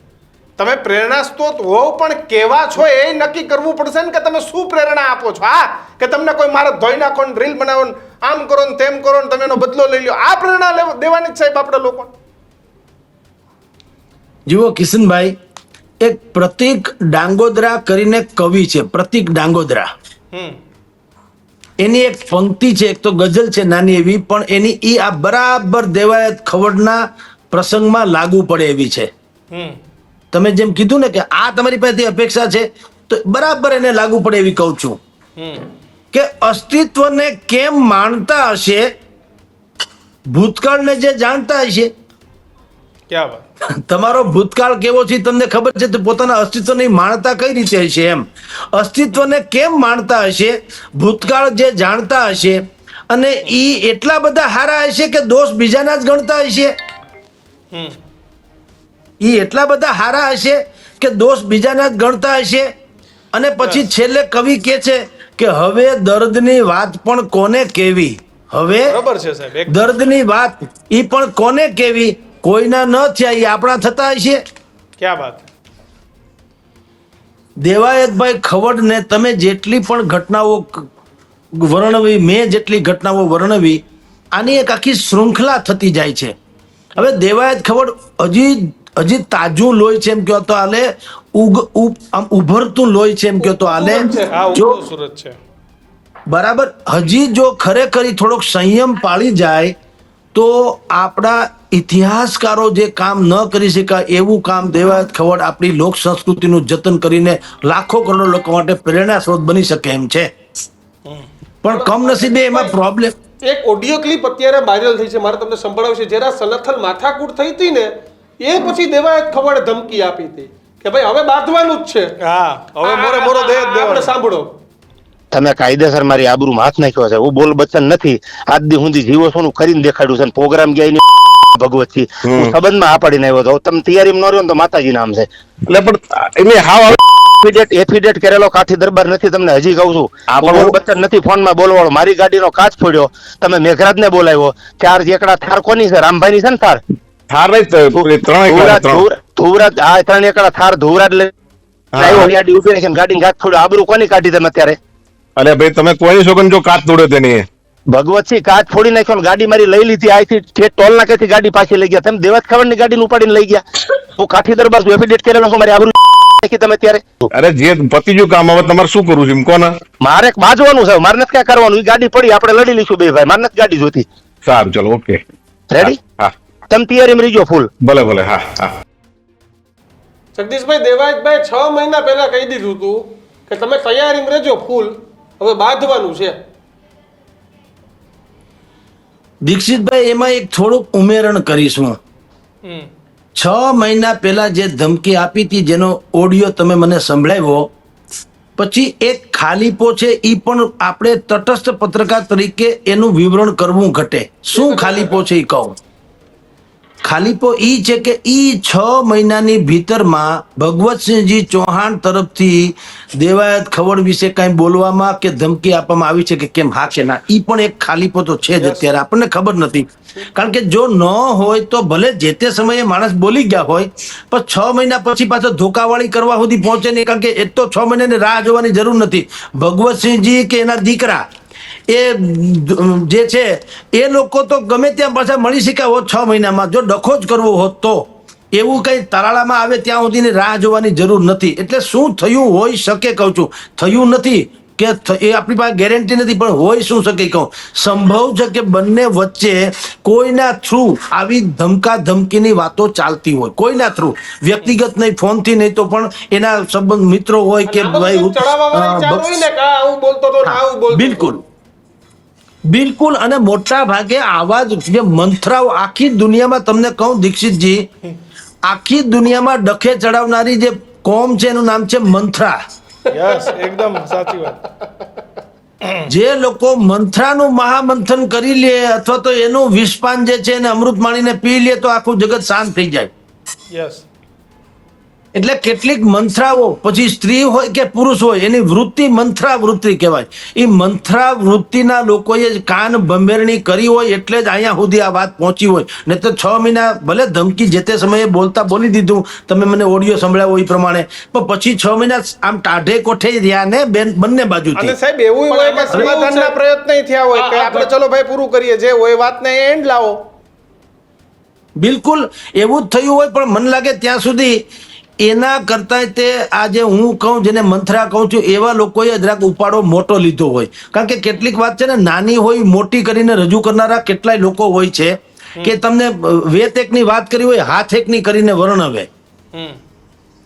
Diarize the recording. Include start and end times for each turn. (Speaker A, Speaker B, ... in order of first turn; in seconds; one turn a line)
Speaker A: 0.6-12.1
Speaker B: 14.5-15.3
Speaker B: 16.0-19.9
Speaker A: 20.3-20.6
Speaker B: 21.8-29.1
Speaker A: 29.5-29.8
Speaker B: 30.3-35.0
Speaker A: 35.4-35.7
Speaker B: 36.1-38.9
Speaker B: 40.3-41.9
Speaker A: 43.1-43.5
Speaker B: 43.8-56.8
Speaker A: 57.7-58.0
Speaker B: 59.2-62.7
Speaker B: 63.3-69.0
Speaker A: 63.6-63.9
Speaker A: 68.9-69.9
Speaker B: 69.7-74.4
Speaker A: 75.0-75.5
Speaker B: 77.6-80.9
Speaker B: 81.5-83.8
Speaker B: 84.3-86.3
Speaker B: 87.0-94.8
Speaker C: 93.4-94.5
Speaker A: 94.3-95.4
Speaker B: 96.3-99.8
Speaker B: 100.3-110.3
Speaker B: 111.6-113.1
Speaker C: 111.7-112.8
Speaker C: 113.4-122.1
Speaker A: 122.2-124.1
Speaker C: 122.8-124.6
Speaker D: 125.3-135.3
Speaker E: 132.3-132.5
Speaker E: 135.7-137.2
Speaker D: 137.4-146.8
Speaker E: 140.3-140.8
Speaker E: 147.3-149.1
Speaker D: 147.9-151.3
Speaker E: 152.0-152.3
Speaker D: 152.0-154.8
Speaker E: 155.4-157.5
Speaker D: 157.9-163.6
Speaker D: 164.2-167.3
Speaker E: 167.3-169.8
Speaker D: 170.0-174.1
Speaker E: 174.4-175.2
Speaker D: 175.7-176.0
Speaker E: 175.8-176.3
Speaker D: 176.7-177.7
Speaker E: 177.8-178.7
Speaker C: 180.4-186.4
Speaker B: 189.4-192.0
Speaker A: 192.6-192.9
Speaker B: 193.4-197.7
Speaker B: 198.6-205.8
Speaker C: 204.5-205.2
Speaker B: 207.1-231.2
Speaker B: 231.9-259.4
Speaker C: 257.7-261.3
Speaker B: 260.5-261.4
Speaker B: 262.7-267.9
Speaker B: 268.6-272.6
Speaker A: 273.1-274.7
Speaker C: 273.1-273.5
Speaker B: 276.1-283.1
Speaker A: 283.7-284.0
Speaker B: 285.4-304.9
Speaker A: 304.8-310.3
Speaker C: 305.5-306.6
Speaker C: 307.4-307.9
Speaker B: 311.8-314.6
Speaker B: 315.2-329.1
Speaker A: 329.5-329.8